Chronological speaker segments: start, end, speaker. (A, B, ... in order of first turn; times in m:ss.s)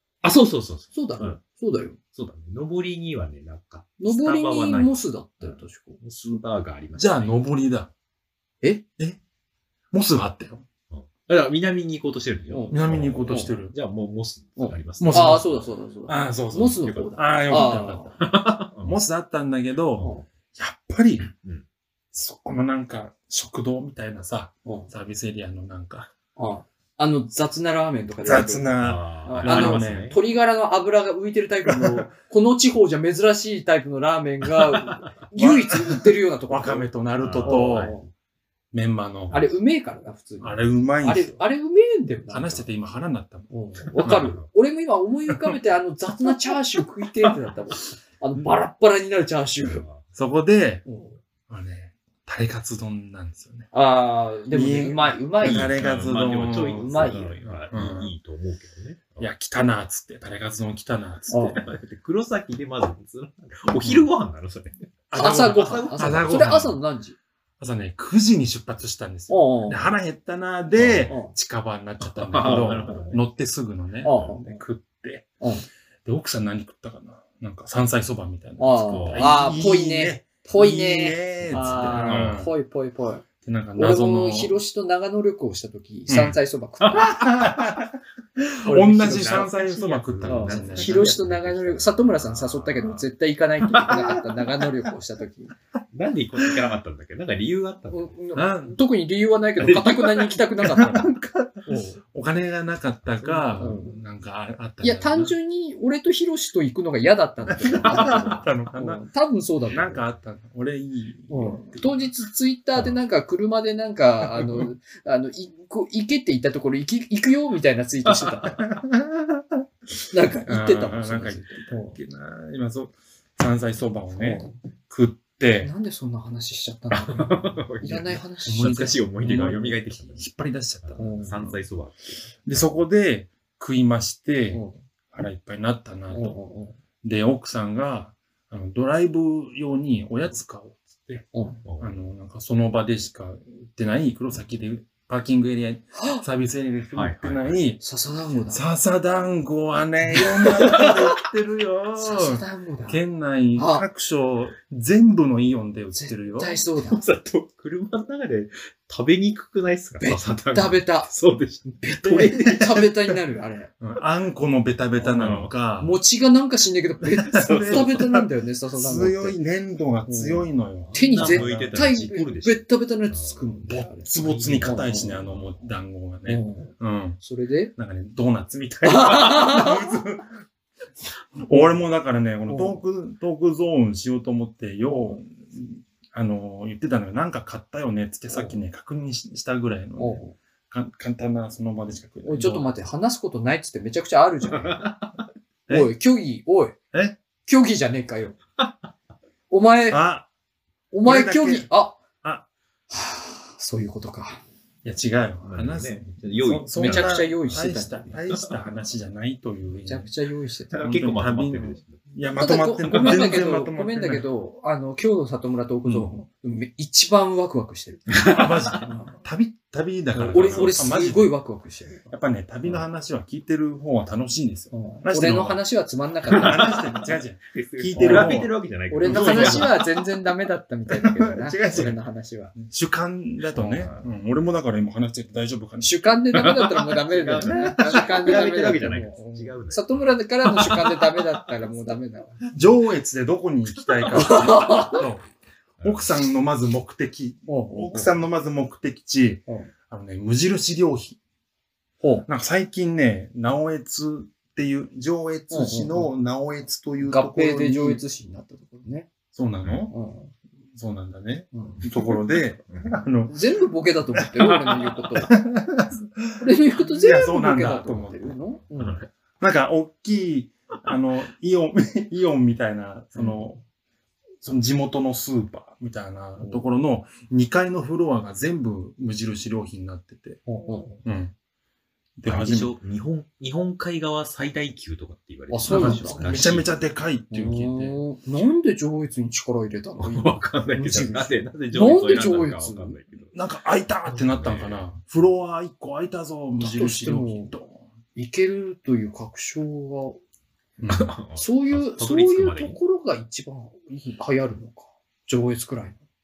0:00.2-0:01.4 A
0:00.9-0:02.0 B
0:02.1-0:07.3 A
0:04.0-0:06.0 B
0:07.0-0:07.9 C
0:09.9-0:10.6 C
0:10.9-0:15.7 A
0:12.5-0:13.6 B
0:12.7-0:13.7 C
0:14.6-0:18.2 B
0:15.0-0:15.5 C
0:16.1-0:18.2 C
0:16.8-0:17.2 A
0:18.2-0:19.0 A
0:18.8-0:21.3 C
0:21.4-0:21.6 A
0:22.1-0:26.1 C
0:24.6-0:24.9 B
0:26.4-0:28.7 B
0:28.2-0:30.1 C
0:28.8-0:30.2 A
0:29.2-0:36.9 B
0:31.6-0:32.1 C
0:35.4-0:38.0 C
0:37.2-0:38.0 A
0:37.4-0:38.1 B
0:38.7-0:39.4 C
0:39.3-0:42.7 B
0:40.4-0:41.4 C
0:42.3-0:43.5 C
0:43.5-0:49.8 B
0:44.0-0:44.4 A
0:44.0-0:44.3 C
0:49.6-0:50.0 A
0:50.1-0:50.9 C
0:50.9-0:51.2 B
0:51.5-0:53.7 C
0:53.7-0:57.4 B
0:54.5-0:58.1 C
0:55.4-0:59.3 A
0:59.2-1:01.7 C
1:01.3-1:01.6 B
1:01.5-1:06.6 A
1:03.8-1:04.1 C
1:05.1-1:06.8 C
1:05.1-1:07.2 B
1:07.6-1:15.3 C
1:09.3-1:09.9 B
1:10.8-1:11.1 A
1:11.1-1:11.3 B
1:12.0-1:13.2 A
1:12.4-1:13.1 B
1:14.0-1:14.6 B
1:15.4-1:15.6 B
1:16.0-1:22.5 C
1:18.6-1:23.2 B
1:18.8-1:19.4 A
1:21.4-1:22.4 A
1:23.4-1:24.6 C
1:23.8-1:27.2 B
1:26.1-1:26.4 C
1:26.9-1:31.1 C
1:28.6-1:29.5 B
1:28.8-1:33.1 A
1:30.2-1:35.5 B
1:33.7-1:34.3 A
1:35.9-1:38.2 A
1:37.9-1:41.1 B
1:38.3-1:38.8 C
1:39.6-1:40.4 A
1:40.6-1:45.3 C
1:41.6-1:42.0 B
1:43.2-1:43.8 A
1:43.6-1:44.0 B
1:44.8-1:50.0 B
1:47.5-1:49.0 C
1:47.8-1:48.4 A
1:49.7-1:52.0 C
1:51.3-1:58.6 B
1:54.3-1:54.7 C
1:58.0-1:58.4 A
1:58.6-1:59.6 C
2:00.1-2:02.0 B
2:00.4-2:05.7 C
2:04.1-2:04.6 B
2:05.6-2:09.0 B
2:06.9-2:10.3 A
2:08.5-2:11.6 C
2:10.8-2:12.8 A
2:11.0-2:11.4 B
2:12.4-2:16.4 C
2:14.5-2:14.8 B
2:16.1-2:16.8 B
2:17.0-2:21.3 C
2:21.3-2:21.6 B
2:21.6-2:22.0 A
2:21.8-2:27.8 C
2:26.0-2:26.2 B
2:27.0-2:27.6 A
2:27.8-2:28.6 B
2:28.5-2:36.6 C
2:30.2-2:31.0 B
2:32.0-2:33.0 B
2:33.6-2:33.9 B
2:36.0-2:37.0 B
2:36.8-2:42.7 A
2:40.0-2:41.1 B
2:41.8-2:43.7 B
2:42.0-2:42.9 C
2:43.8-2:46.0 C
2:45.0-2:45.5 A
2:45.8-2:49.4 B
2:47.2-2:52.2 C
2:47.4-2:48.0 A
2:50.0-2:54.1 B
2:50.9-2:55.7 A
2:53.7-2:57.2 C
2:54.6-2:55.2 B
2:56.3-2:57.7 B
2:57.8-3:00.3 C
2:58.8-2:59.9 B
3:01.4-3:12.7 C
3:01.5-3:01.7 B
3:02.4-3:02.8 B
3:04.9-3:05.2 B
3:08.3-3:08.6 B
3:10.0-3:10.3 B
3:12.2-3:14.9 B
3:14.5-3:15.1 A
3:15.7-3:16.8 B
3:16.9-3:17.2 C
3:17.4-3:18.4 B
3:19.5-3:20.0 B
3:19.9-3:20.3 C
3:20.9-3:22.0 B
3:21.0-3:21.7 C
3:22.9-3:24.4 B
3:24.8-3:30.1 C
3:25.4-3:27.7 A
3:26.7-3:28.1 B
3:28.3-3:28.6 A
3:29.8-3:30.8 B
3:30.7-3:32.0 A
3:30.8-3:34.3 C
3:32.4-3:39.2 B
3:32.9-3:33.2 A
3:38.1-3:38.8 A
3:38.2-3:41.3 C
3:40.2-3:41.0 A
3:40.2-3:42.1 B
3:42.1-3:45.6 C
3:44.7-3:46.8 B
3:46.3-3:49.9 A
3:46.3-3:49.7 C
3:48.0-3:52.6 B
3:50.9-3:52.0 C
3:52.6-3:55.9 C
3:53.6-3:54.0 B
3:53.6-3:54.0 A
3:55.8-4:02.5 B
3:56.3-4:01.4 A
3:57.3-3:59.6 C
4:02.5-4:05.2 C
4:04.1-4:05.0 B
4:05.8-4:06.1 A
4:05.8-4:11.2 C
4:07.5-4:08.1 B
4:12.3-4:18.0 C
4:15.5-4:16.1 B
4:17.0-4:19.1 B
4:19.3-4:19.9 C
4:19.9-4:20.3 B
4:20.7-4:23.4 C
4:21.5-4:21.8 B
4:22.7-4:23.0 A
4:23.3-4:25.3 B
4:24.4-4:25.0 A
4:25.2-4:28.4 C
4:26.4-4:29.0 B
4:28.8-4:29.0 A
4:29.4-4:33.6 C
4:33.1-4:33.4 B
4:34.4-4:40.4 C
4:36.4-4:36.6 B
4:40.4-4:41.0 B
4:41.0-4:41.3 C
4:42.2-4:42.8 C
4:42.3-4:46.7 A
4:45.5-4:46.6 B
4:45.7-4:48.0 C
4:47.3-4:53.0 B
4:50.0-4:53.3 A
4:53.3-4:57.8 C
4:54.1-4:54.9 A
4:56.6-4:57.5 B
4:58.1-5:00.2 B
5:00.8-5:01.1 C
5:00.9-5:02.8 A
5:01.3-5:06.0 B